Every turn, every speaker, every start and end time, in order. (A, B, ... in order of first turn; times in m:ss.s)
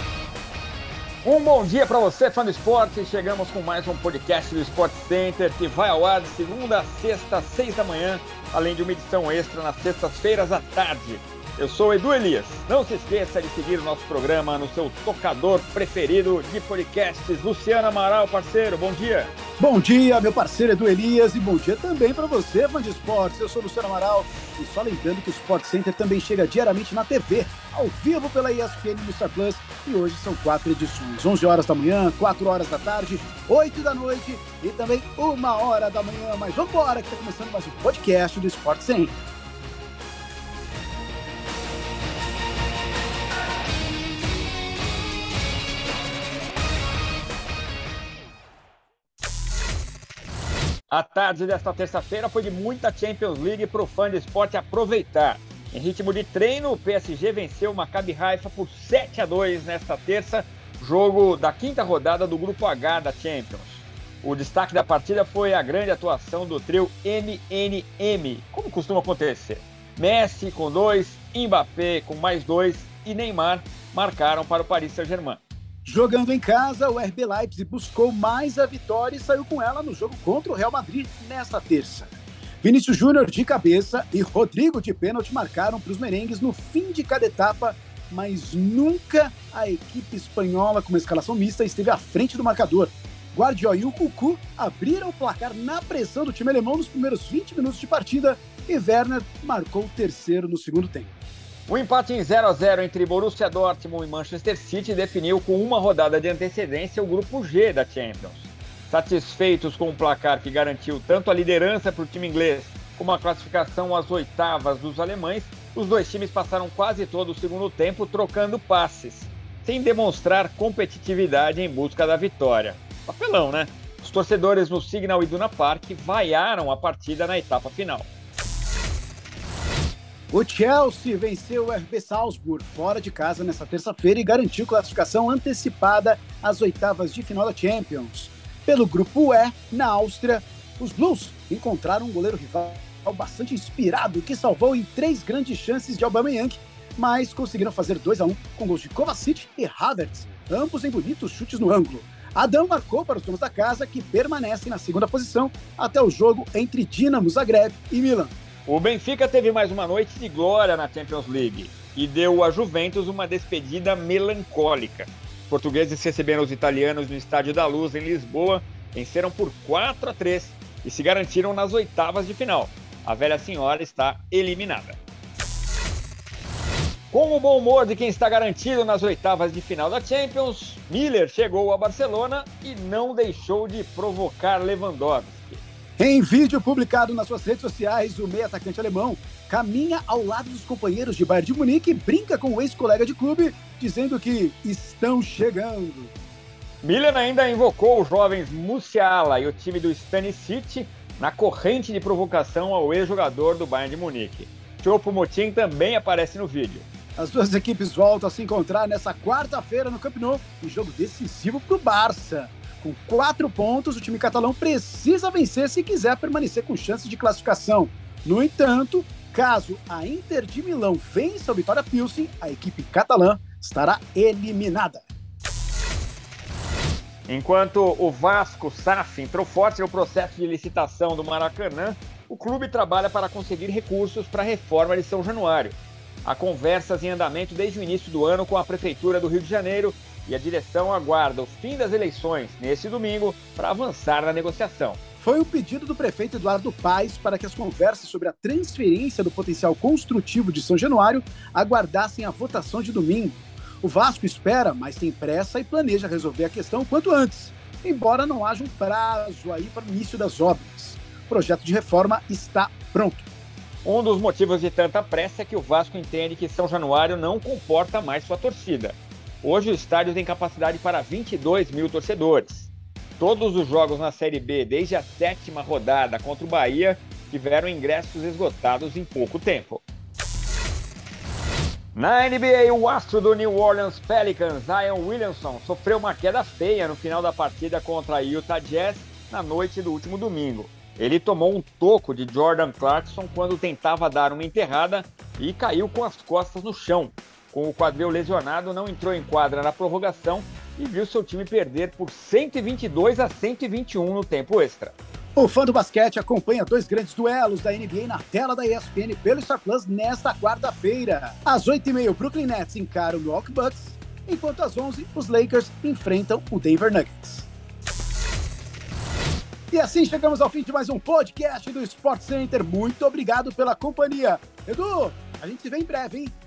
0:01.2-0:19.3 A
0:19.6-0:39.2 B
0:50.9-1:15.4 A
1:15.8-1:22.1 B
1:22.6-1:41.1 B
1:41.7-2:08.1 A
2:10.3-2:38.3 B
2:38.7-2:55.0 A
2:57.1-3:05.6 A
3:06.0-3:16.1 B
3:16.8-3:26.9 A
3:27.2-3:45.0 B
3:47.3-4:05.0 A
4:05.2-4:23.3 B
4:23.8-4:39.8 A
4:41.9-5:05.0 A
5:05.4-5:17.5 B
5:19.7-5:26.3 B